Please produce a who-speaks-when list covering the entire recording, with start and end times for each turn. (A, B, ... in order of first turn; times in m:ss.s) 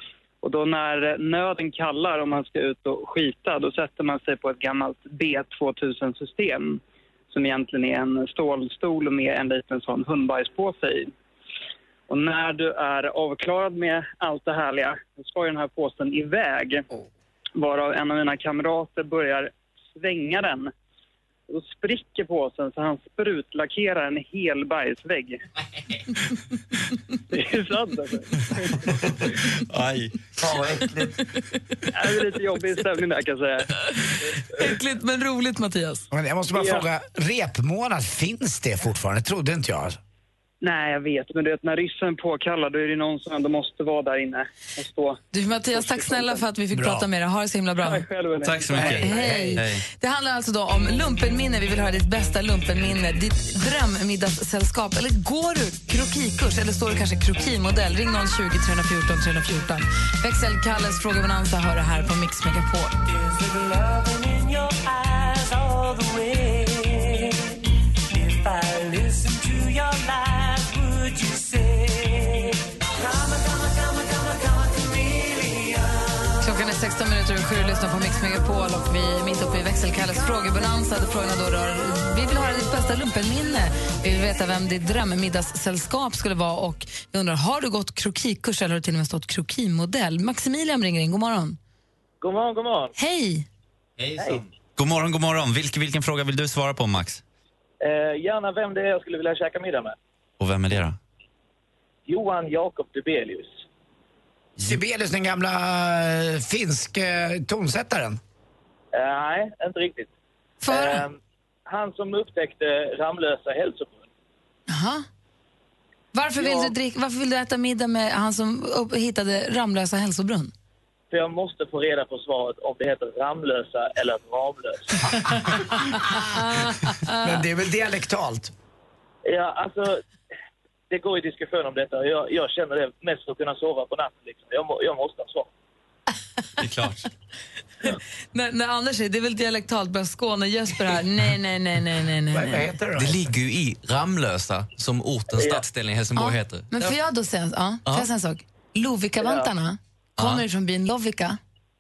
0:00.4-0:11.1 A
0:12.1-0:16.8 A
0:17.6-0:20.7 A
0:21.5-0:25.4 A
0:27.3-0:28.8 A
0:29.7-0:30.2 B
0:30.4-0:31.1 C
0:31.9-0:33.7 A
0:34.6-0:36.0 D
0:36.1-0:40.0 C
0:36.5-0:36.8 A
0:40.6-0:45.2 A
0:45.3-0:48.0 D
0:45.7-0:46.4 A
0:46.7-0:47.0 C
0:47.8-0:48.8 A
0:48.4-0:49.8 B
0:48.8-0:49.6 C
0:48.8-1:02.9 D
1:16.4-1:31.6 D
1:32.2-1:32.9 E
1:33.0-1:33.4 D
1:34.0-1:37.2 B
1:34.2-1:34.4 E
1:37.8-1:40.0 E
1:40.4-1:41.0 B
1:42.1-1:43.6 E
1:44.6-1:48.2 C
1:48.9-1:50.1 E
1:50.6-1:51.0 D
1:50.7-1:54.0 E
1:54.7-1:55.0 D
1:56.1-2:00.5 D
1:56.4-1:56.7 E
2:01.1-2:04.9 E
2:06.4-2:07.4 D
2:07.1-2:08.5 C
2:09.2-2:10.0 E
2:10.9-2:15.5 E
2:16.6-2:17.1 B
2:18.3-2:22.7 D
2:22.3-2:23.3 C
2:23.0-2:27.0 F
2:25.4-2:25.6 E
2:26.1-2:31.4 D
2:29.2-2:29.5 E